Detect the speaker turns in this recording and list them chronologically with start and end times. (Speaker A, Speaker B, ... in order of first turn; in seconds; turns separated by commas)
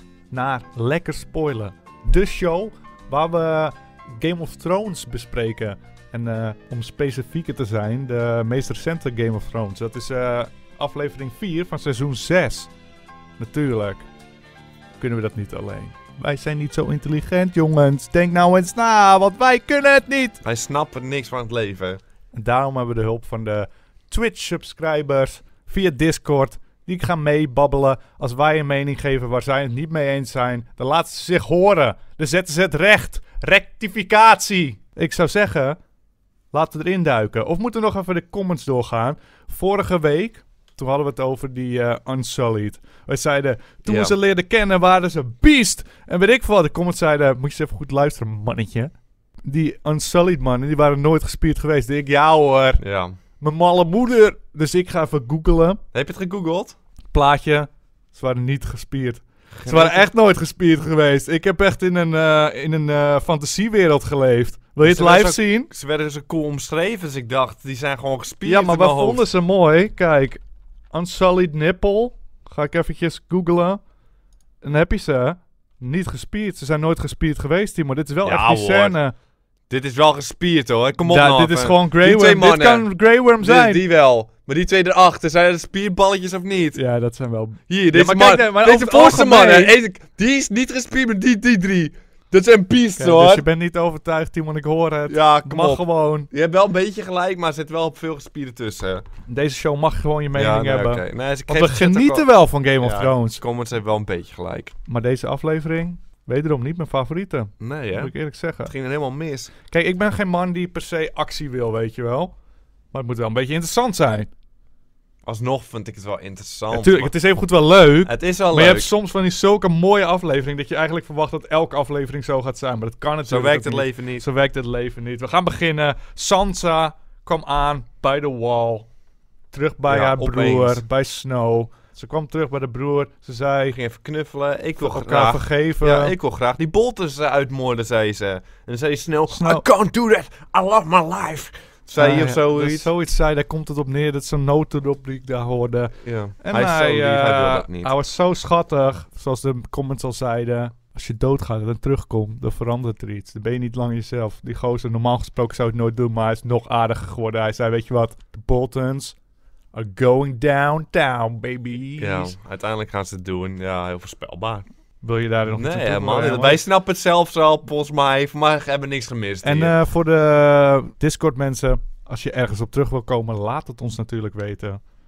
Speaker A: 0.3-12.7, Speaker A: 13.4-14.0, Speaker A: 15.0-20.4, Speaker B: 20.4-22.0, Speaker A: 22.3-35.8, Speaker A: 36.5-48.9, Speaker B: 43.9-44.1, Speaker A: 49.4-52.8, Speaker B: 52.8-53.2, Speaker A: 53.4-55.8, Speaker B: 55.9-56.8, Speaker A: 57.1-65.7, Speaker B: 59.5-60.1, Speaker B: 64.8-69.3, Speaker A: 68.4-70.4, Speaker A: 70.9-73.8, Speaker A: 74.6-79.1, Speaker B: 78.2-79.0, Speaker B: 79.7-86.8, Speaker A: 81.0-83.8, Speaker A: 86.7-89.8, Speaker B: 87.7-93.5, Speaker A: 93.0-96.3, Speaker B: 95.1-99.0, Speaker A: 99.3-103.4, Speaker B: 100.3-102.3, Speaker B: 102.8-104.7, Speaker A: 104.9-108.7, Speaker B: 107.6-108.1, Speaker B: 108.7-109.5, Speaker A: 109.7-112.3, Speaker A: 112.9-114.3, Speaker B: 115.2-117.1, Speaker A: 116.7-128.9, Speaker B: 118.0-118.9, Speaker B: 123.2-124.2, Speaker A: 129.5-133.8, Speaker B: 129.9-130.8, Speaker B: 133.7-142.9, Speaker A: 134.8-136.2, Speaker A: 139.3-139.6, Speaker A: 141.9-159.1, Speaker B: 146.0-147.9, Speaker A: 159.7-162.4, Speaker B: 162.0-164.7, Speaker A: 165.0-166.6, Speaker B: 165.4-169.7, Speaker A: 169.4-174.8